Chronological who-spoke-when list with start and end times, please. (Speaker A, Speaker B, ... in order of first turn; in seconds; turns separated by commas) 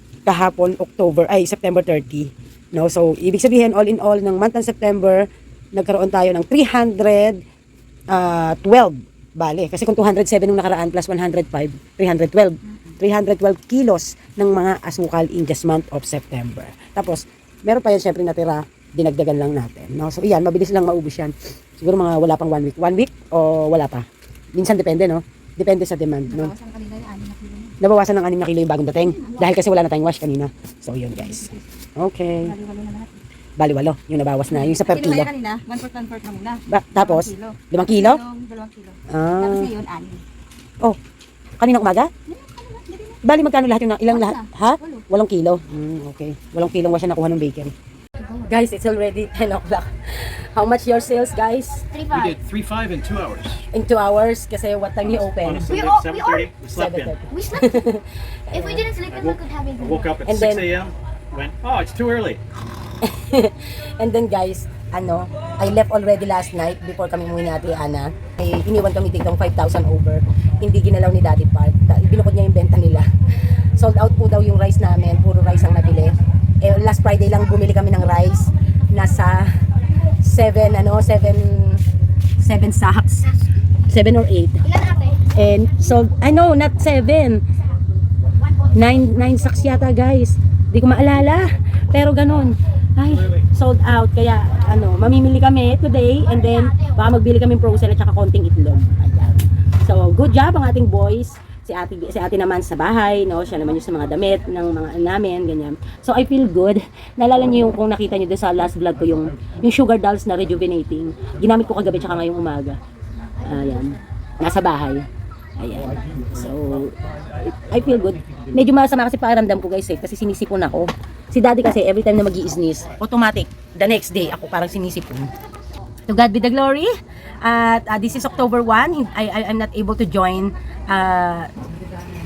Speaker A: 0.2-7.4, Speaker A: 8.1-26.5, Speaker B: 26.3-27.8, Speaker A: 27.8-32.5, Speaker B: 32.4-33.2, Speaker A: 33.6-35.3, Speaker B: 34.5-40.2, Speaker A: 36.7-38.2, Speaker A: 39.1-39.7, Speaker A: 41.6-42.1, Speaker B: 42.3-43.2, Speaker A: 43.2-47.7, Speaker B: 44.1-45.0, Speaker A: 48.4-51.9, Speaker B: 51.9-52.4, Speaker C: 52.1-53.6, Speaker A: 53.7-55.8, Speaker C: 55.3-57.1, Speaker B: 55.7-56.5, Speaker A: 56.6-58.9, Speaker B: 57.3-57.8, Speaker B: 58.5-60.1, Speaker C: 59.0-62.4, Speaker A: 60.2-60.7, Speaker A: 63.0-73.1, Speaker A: 73.8-79.5, Speaker A: 80.2-81.8, Speaker A: 82.4-83.3, Speaker A: 83.9-87.4, Speaker A: 88.7-112.8, Speaker A: 113.4-115.1, Speaker A: 115.6-116.9, Speaker A: 117.5-125.3, Speaker C: 118.2-118.5, Speaker A: 126.1-126.9, Speaker A: 127.4-131.5